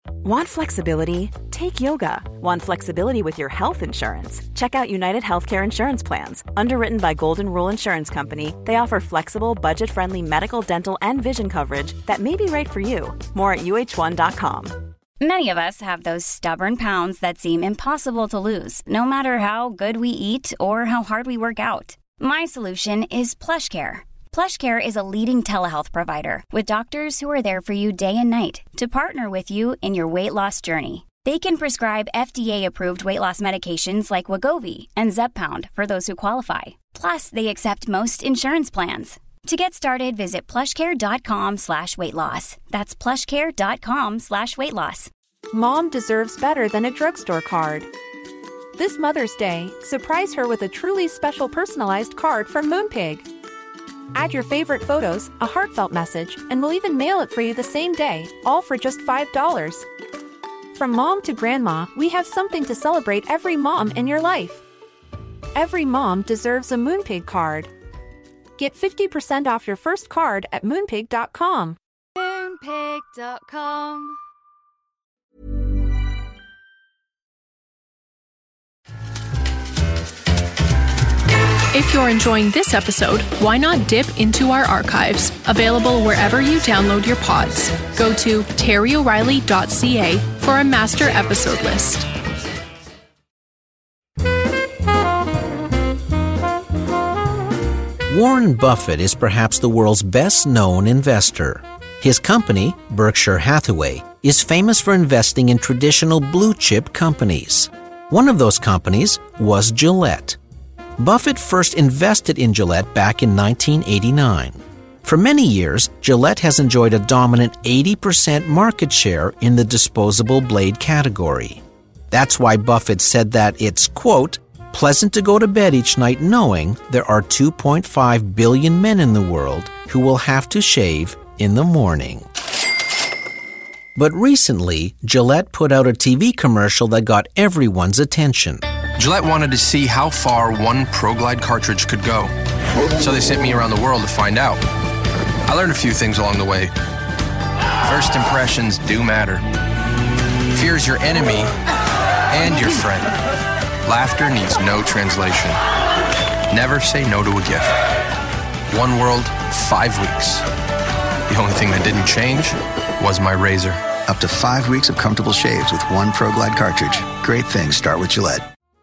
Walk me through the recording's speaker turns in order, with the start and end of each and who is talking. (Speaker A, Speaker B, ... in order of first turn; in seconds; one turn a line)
Speaker A: 0.2-14.8
Speaker B: 15.2-45.1
Speaker C: 45.5-47.9
Speaker C: 48.8-53.3
Speaker C: 54.1-59.9
Speaker C: 60.7-64.6
Speaker C: 65.5-67.7
Speaker C: 68.6-71.8
Speaker D: 72.2-74.2
Speaker E: 81.7-92.1
Speaker F: 98.1-110.4
Speaker F: 111.0-132.2
Speaker F: 133.9-138.7
Speaker G: 139.0-142.3
Speaker G: 143.0-144.6
Speaker G: 145.4-146.7
Speaker G: 147.9-149.4
Speaker G: 150.5-151.5
Speaker G: 152.3-153.1
Speaker G: 153.8-155.6
Speaker G: 156.5-157.7
Speaker G: 158.7-160.4
Speaker G: 161.3-163.8
Speaker H: 164.0-168.4